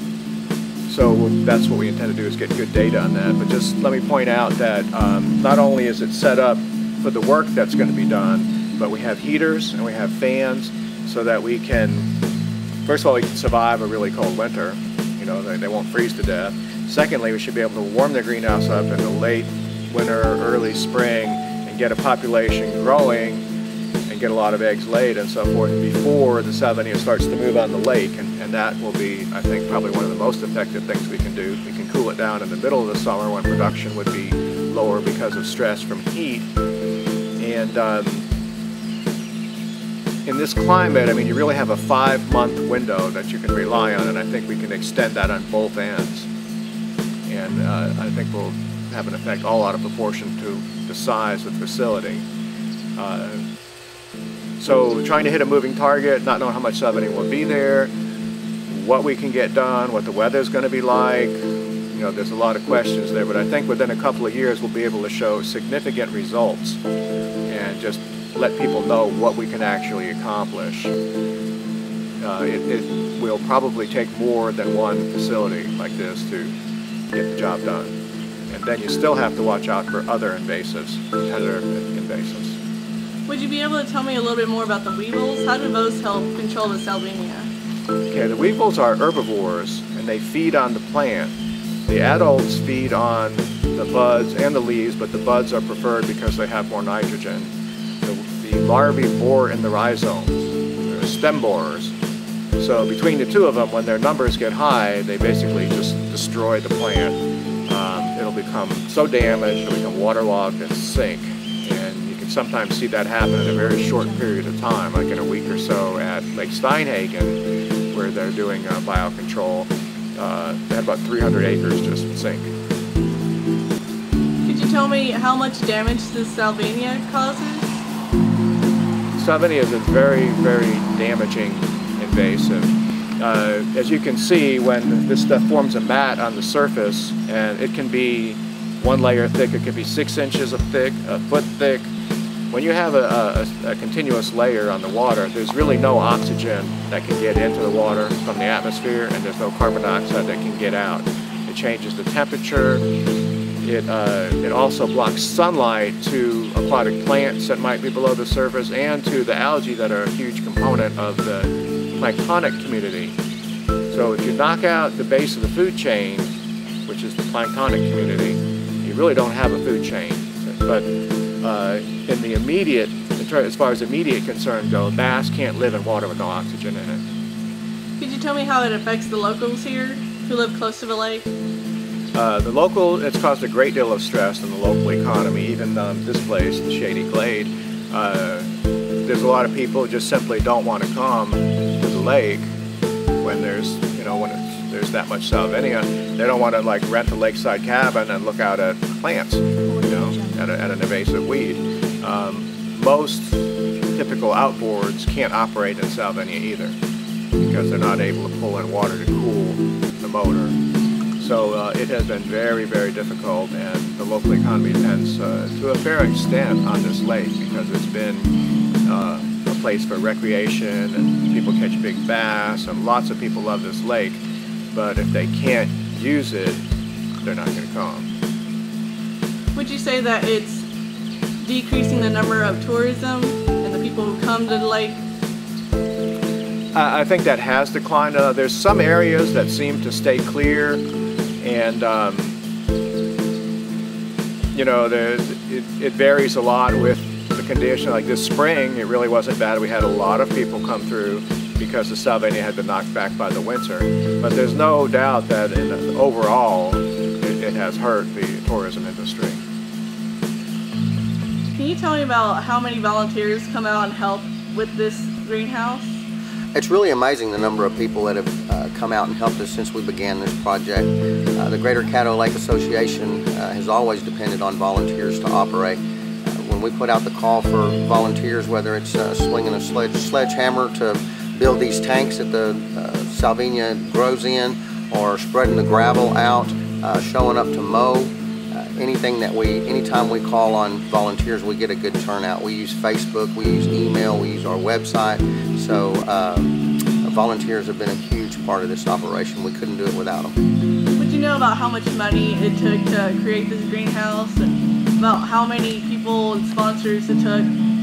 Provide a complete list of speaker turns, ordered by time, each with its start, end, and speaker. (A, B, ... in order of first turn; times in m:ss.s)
0:00.9-0:12.1 A
0:12.8-0:23.5 A
0:24.1-0:36.5 A
0:37.4-0:38.2 A
0:40.3-0:46.3 A
0:47.3-0:52.2 A
0:53.0-0:53.4 A
0:54.6-0:57.9 A
0:58.7-1:01.4 A
1:01.9-1:06.8 A
1:07.5-1:10.9 A
1:12.2-1:16.5 A
1:17.1-1:17.9 A
1:18.5-1:22.6 A
1:23.3-1:27.5 B
1:28.1-1:31.4 A
1:31.9-1:37.5 A
1:38.0-1:42.0 A
1:42.6-1:57.4 A
1:57.9-2:02.5 A
2:04.4-2:07.7 B
2:09.2-2:21.9 A
2:22.5-2:32.8 A
2:33.6-2:43.2 A
2:43.9-2:46.3 A
2:46.9-2:50.9 A
2:51.4-2:57.0 A
2:58.0-3:01.3 B
3:02.1-3:08.5 A
3:09.0-3:12.5 A
3:13.2-3:26.8 A
3:27.4-3:30.6 A
3:31.2-3:38.3 A
3:38.9-3:44.2 A
3:44.7-3:46.6 A
3:47.2-3:48.1 A
3:49.5-3:50.7 B
3:51.4-3:55.0 B
3:56.7-4:00.8 A
4:01.4-4:02.4 A
4:04.5-4:19.4 A
4:21.6-4:26.0 B
4:26.6-5:00.4 C
5:01.0-5:07.5 B